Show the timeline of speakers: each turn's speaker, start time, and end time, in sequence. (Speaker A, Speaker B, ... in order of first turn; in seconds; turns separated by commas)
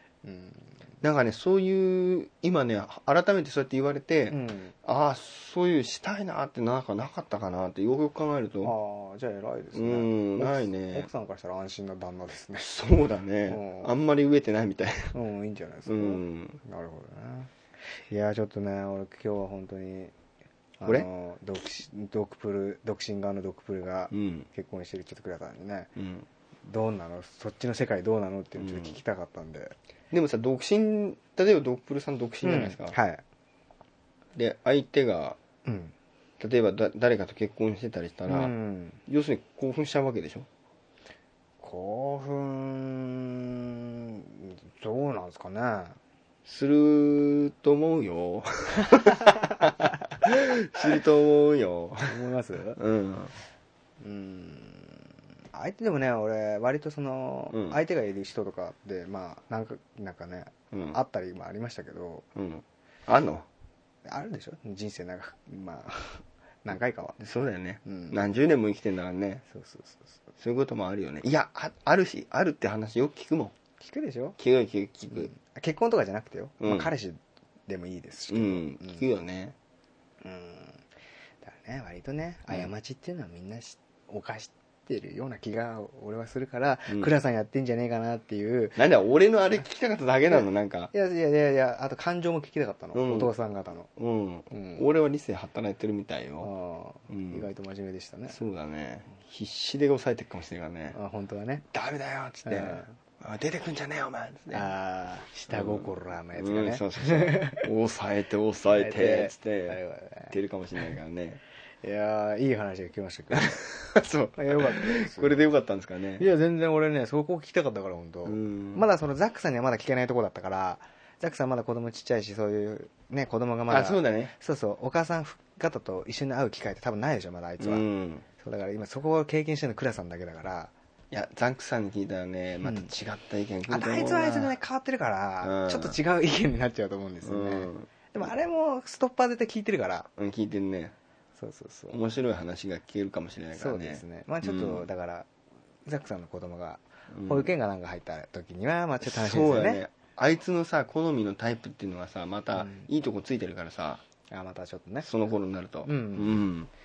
Speaker A: 0.2-0.7, Speaker B: 1.0-8.7, Speaker A: 4.3-4.7, Speaker A: 8.6-12.7, Speaker B: 9.7-11.1, Speaker B: 12.6-15.1, Speaker A: 13.5-13.9, Speaker A: 15.1-20.1, Speaker B: 15.9-16.6, Speaker A: 20.8-25.9, Speaker B: 20.8-21.1, Speaker B: 24.1-24.5, Speaker B: 25.9-26.3, Speaker A: 26.6-29.8, Speaker B: 28.6-29.0, Speaker B: 30.1-33.0, Speaker A: 32.4-33.2, Speaker B: 34.4-35.4, Speaker A: 35.6-35.9, Speaker B: 36.4-38.5, Speaker A: 38.3-39.0, Speaker B: 39.0-40.5, Speaker A: 41.6-46.0, Speaker B: 46.4-52.1, Speaker A: 52.0-52.8, Speaker B: 52.8-53.3, Speaker A: 54.0-62.2, Speaker B: 57.5-57.8, Speaker B: 60.7-61.0, Speaker B: 62.4-63.5, Speaker A: 64.0-67.2, Speaker B: 67.2-69.4, Speaker A: 67.8-68.2, Speaker A: 69.5-70.2, Speaker B: 70.4-73.5, Speaker A: 73.8-74.4, Speaker B: 74.4-75.3, Speaker A: 75.1-79.0, Speaker B: 76.6-76.9, Speaker B: 78.3-79.5, Speaker A: 80.2-80.8, Speaker A: 81.4-88.8, Speaker B: 88.8-90.9, Speaker A: 90.3-93.9, Speaker B: 92.9-93.3, Speaker B: 93.9-96.5, Speaker A: 94.5-94.9, Speaker A: 96.4-98.4, Speaker B: 97.1-97.5, Speaker B: 98.3-101.0, Speaker A: 100.9-101.7, Speaker B: 101.7-104.7, Speaker A: 102.4-103.0, Speaker A: 104.5-107.6, Speaker B: 105.5-111.4, Speaker A: 108.8-110.3, Speaker A: 111.8-113.6, Speaker B: 113.3-116.2, Speaker A: 114.3-115.4, Speaker A: 116.2-127.8, Speaker B: 118.2-118.9, Speaker B: 123.7-124.3, Speaker B: 127.6-128.2, Speaker A: 128.4-130.7, Speaker B: 131.1-134.5, Speaker A: 132.6-132.9, Speaker A: 133.7-140.1, Speaker B: 135.4-136.0, Speaker B: 137.2-137.9, Speaker B: 140.2-140.9, Speaker A: 141.4-142.0, Speaker B: 141.9-144.9, Speaker A: 143.5-145.3, Speaker A: 145.8-149.8, Speaker B: 147.1-147.5, Speaker B: 149.0-154.0, Speaker A: 152.5-152.9, Speaker A: 154.3-155.1, Speaker B: 155.0-156.7, Speaker A: 155.8-156.4